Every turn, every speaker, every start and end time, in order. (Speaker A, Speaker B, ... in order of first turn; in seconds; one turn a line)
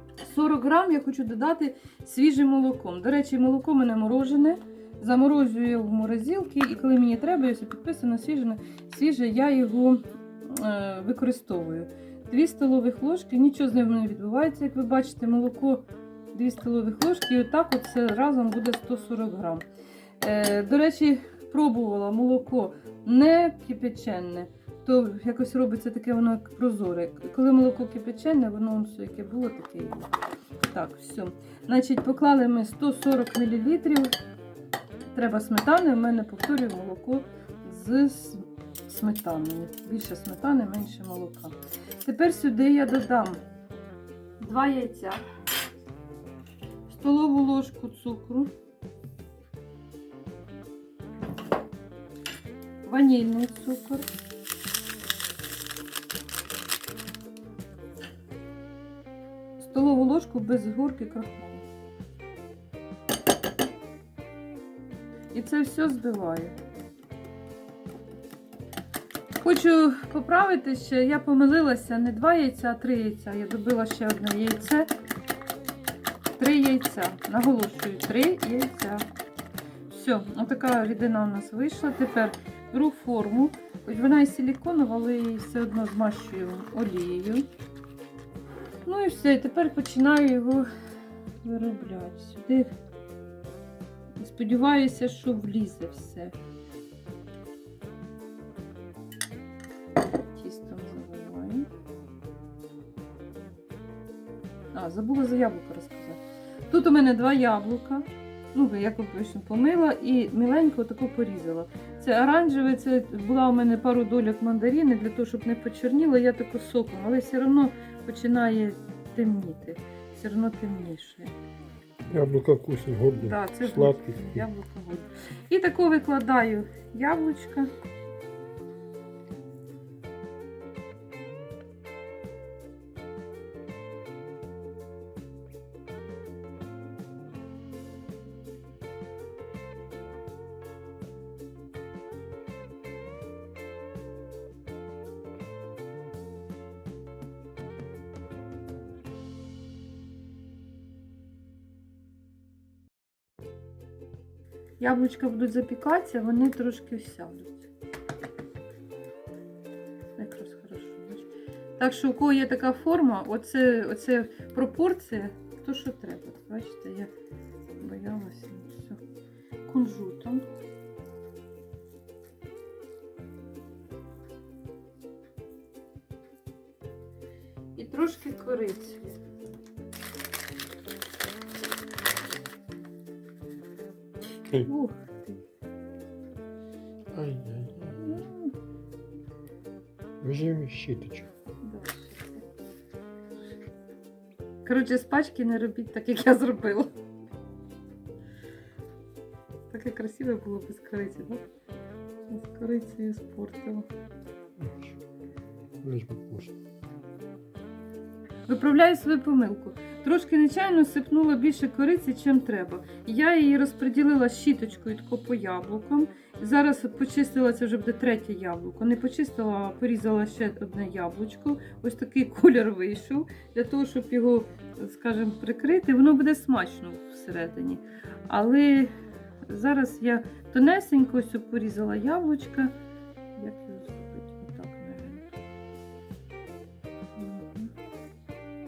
Speaker A: 0.2-19.6
Speaker A: 20.2-30.1
Speaker A: 30.6-34.1
Speaker A: 35.1-43.4
Speaker A: 44.4-45.2
Speaker A: 46.9-48.5
Speaker A: 52.8-54.1
Speaker A: 59.6-61.6
Speaker A: 65.3-66.5
Speaker A: 69.4-74.9
Speaker A: 76.4-79.0
Speaker A: 79.9-87.5
Speaker A: 88.8-90.7
Speaker A: 91.4-92.7
Speaker A: 94.2-96.3
Speaker A: 100.2-101.7
Speaker A: 104.7-121.3
Speaker B: 122.1-124.5
Speaker A: 123.2-127.7
Speaker A: 154.8-157.7
Speaker A: 160.2-167.1
Speaker A: 167.8-169.0
Speaker A: 169.6-170.4
Speaker A: 177.8-179.2
Speaker A: 184.6-185.4
Speaker B: 187.1-188.2
Speaker A: 187.9-188.5
Speaker B: 190.2-191.3
Speaker A: 191.6-192.4
Speaker A: 194.6-196.9
Speaker A: 199.7-201.5
Speaker A: 202.3-203.9
Speaker B: 204.6-205.0
Speaker B: 205.8-206.5
Speaker A: 208.5-228.9
Speaker A: 229.5-232.7
Speaker A: 233.3-235.3
Speaker A: 237.2-237.7